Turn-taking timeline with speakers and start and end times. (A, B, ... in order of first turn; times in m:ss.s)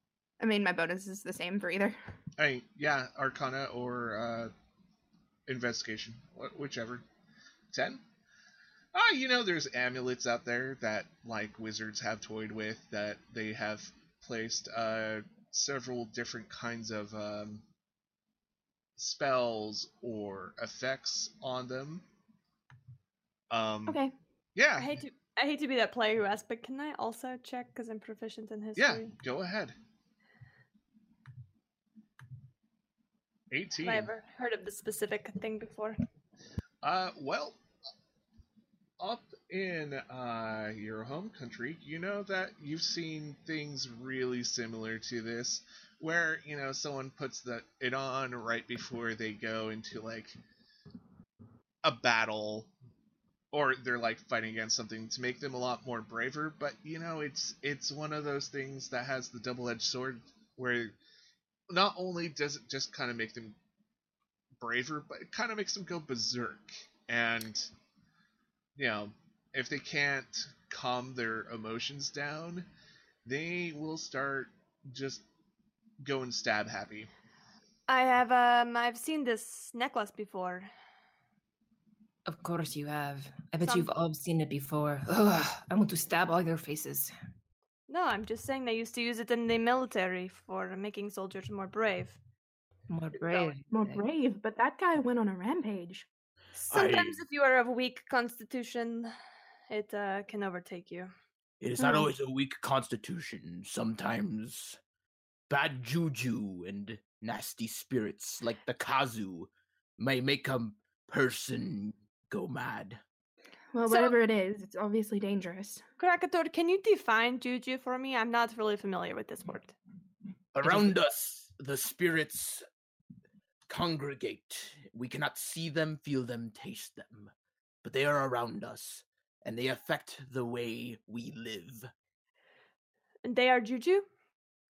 0:00.4-0:02.0 A
0:02.4-0:04.5 B
0:05.5-0:07.0 B
0:07.7-0:08.0 B
0:08.9-0:17.6 B
0:19.0-0:22.0 B
0:23.5-0:24.0 B
0:23.9-0:24.1 A
0:24.6-0:25.0 B
0:24.8-0:29.1 C
0:28.8-0:29.7 B
0:33.5-0:34.1 B
0:33.8-0:36.0 C
0:36.8-0:37.6 B
0:39.0-0:50.4 B
0:51.8-0:52.7 B
0:53.5-1:00.9 B
1:01.7-1:03.6 B
1:04.6-1:07.7 B
1:08.8-1:12.7 B
1:13.2-1:15.2 B
1:16.0-1:17.1 B
1:17.9-1:20.7 C
1:22.3-1:27.1 D
1:23.6-1:23.9 C
1:27.9-1:32.2 C
1:32.9-1:34.0 D
1:33.3-1:33.5 C
1:33.7-1:36.0 A
1:36.5-1:39.1 C
1:36.7-1:37.2 E
1:39.7-1:41.1 C
1:41.6-1:44.8 E
1:41.8-1:42.1 A
1:45.5-1:53.0 E
1:53.7-1:55.8 A
1:53.9-1:54.2 C
1:56.0-1:59.7 C
2:00.5-2:02.6 E
2:03.7-2:07.3 E
2:07.8-2:11.9 E
2:13.2-2:14.1 C